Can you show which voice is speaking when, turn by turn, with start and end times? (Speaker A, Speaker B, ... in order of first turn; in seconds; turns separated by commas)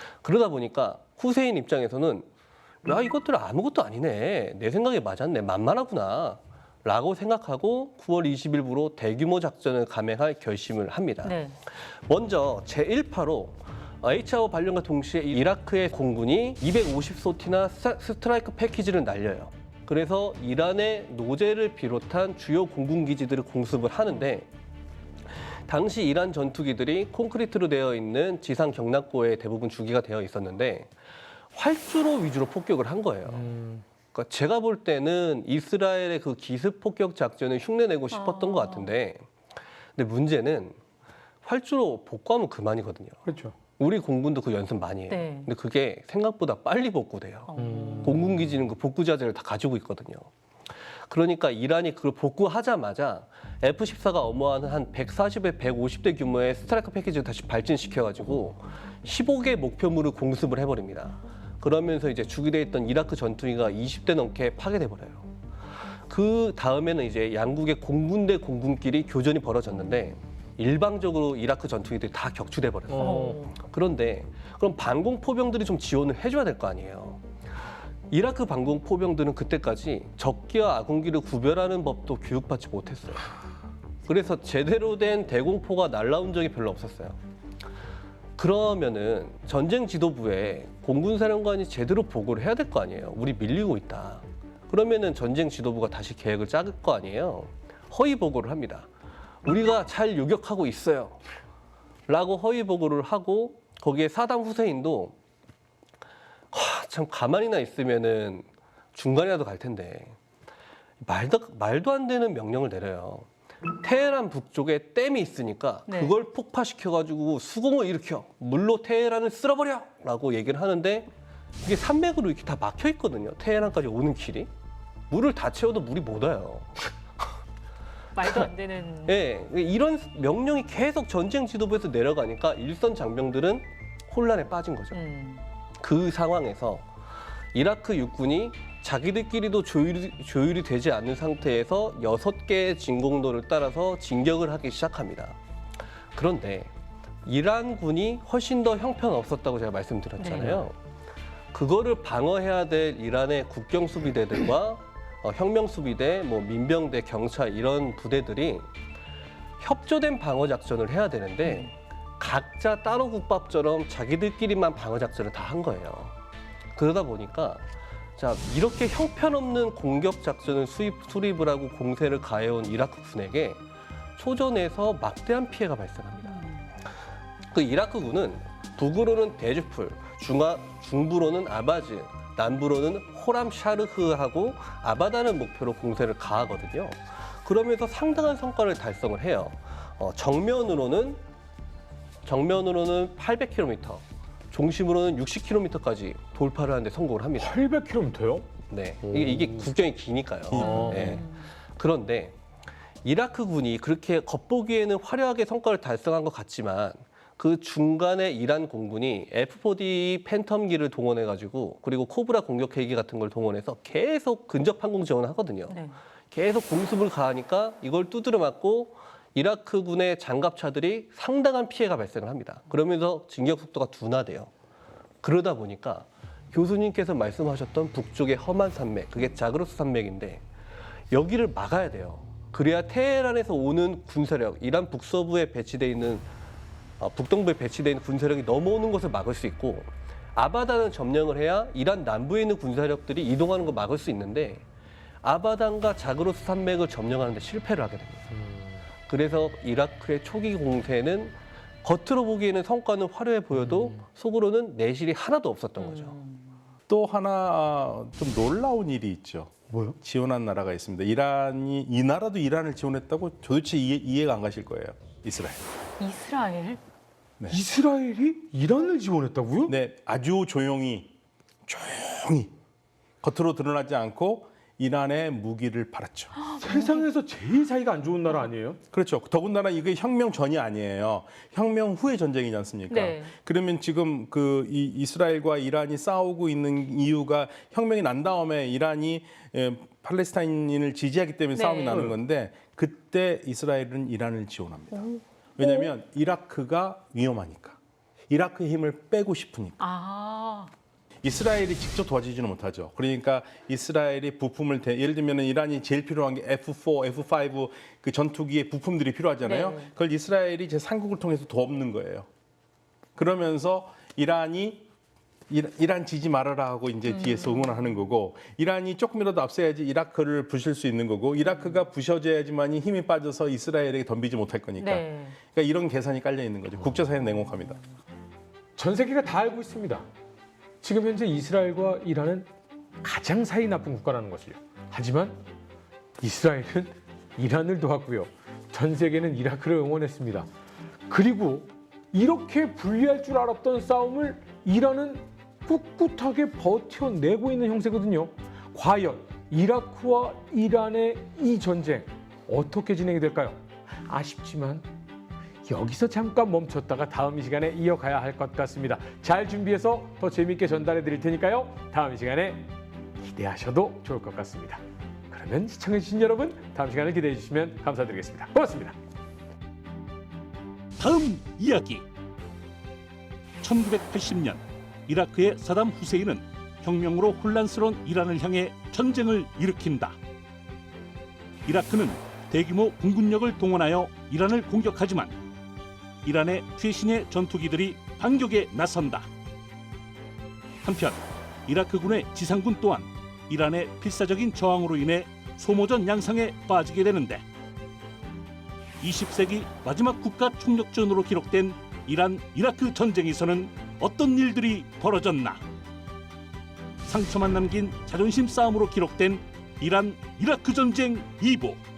Speaker A: 0.2-2.3, Speaker A: 2.8-24.5, Speaker B: 11.2-11.6, Speaker A: 25.4-30.9, Speaker A: 31.5-33.5, Speaker C: 33.3-33.8, Speaker A: 34.1-39.3, Speaker B: 38.1-38.9, Speaker A: 40.0-40.8, Speaker A: 41.4-43.2, Speaker C: 43.2-43.6, Speaker A: 43.8-50.3, Speaker B: 45.1-45.5, Speaker B: 47.5-48.1, Speaker C: 47.5-48.4, Speaker A: 51.1-65.3, Speaker A: 66.1-77.2, Speaker C: 72.9-73.5, Speaker B: 72.9-73.5, Speaker A: 78.1-83.4, Speaker A: 84.0-87.2, Speaker A: 88.4-98.9, Speaker A: 99.4-101.2, Speaker A: 102.1-105.2, Speaker A: 106.5-110.2, Speaker A: 111.0-113.3, Speaker A: 113.8-121.1, Speaker B: 115.9-116.2, Speaker A: 121.6-124.5, Speaker A: 125.1-126.9, Speaker B: 128.2-129.2, Speaker A: 128.2-128.5, Speaker A: 129.1-135.0, Speaker B: 134.9-135.4, Speaker A: 135.8-136.9, Speaker A: 137.5-145.4, Speaker A: 146.1-146.7, Speaker A: 147.2-150.8, Speaker B: 150.2-150.7, Speaker A: 151.5-158.7, Speaker A: 159.6-166.1, Speaker A: 166.7-173.6, Speaker A: 174.2-176.6, Speaker A: 177.5-191.2, Speaker A: 192.2-197.6, Speaker C: 197.4-198.5, Speaker A: 198.7-202.3, Speaker C: 199.0-199.7, Speaker D: 200.5-201.2, Speaker B: 200.5-201.5, Speaker C: 200.6-201.2, Speaker A: 203.0-224.5, Speaker B: 215.7-216.0, Speaker A: 225.2-230.4, Speaker A: 231.1-236.3, Speaker A: 237.0-244.7, Speaker A: 245.2-248.3, Speaker A: 249.1-256.2, Speaker C: 253.7-254.0, Speaker B: 255.8-256.6, Speaker D: 256.9-265.6, Speaker C: 259.7-260.0, Speaker B: 266.0-266.8, Speaker C: 267.5-269.7, Speaker D: 269.7-271.1, Speaker D: 271.7-272.5, Speaker D: 273.2-276.4, Speaker B: 276.4-277.1, Speaker C: 276.6-278.8, Speaker D: 278.9-297.8, Speaker B: 282.9-283.3, Speaker B: 291.5-292.0, Speaker B: 294.9-295.9, Speaker D: 298.3-299.8, Speaker B: 299.8-300.7, Speaker D: 301.2-312.3, Speaker B: 309.4-309.9, Speaker D: 313.2-314.9, Speaker D: 315.5-327.8, Speaker B: 317.1-317.9, Speaker B: 324.8-325.4, Speaker C: 328.8-330.1, Speaker C: 330.8-332.5, Speaker C: 333.0-335.4, Speaker C: 336.2-340.5, Speaker C: 341.1-354.9, Speaker C: 355.6-369.0, Speaker E: 371.0-372.1, Speaker E: 373.6-380.2, Speaker E: 381.7-385.4, Speaker E: 386.2-389.3, Speaker E: 390.8-397.4, Speaker E: 399.0-405.6, Speaker E: 407.0-411.8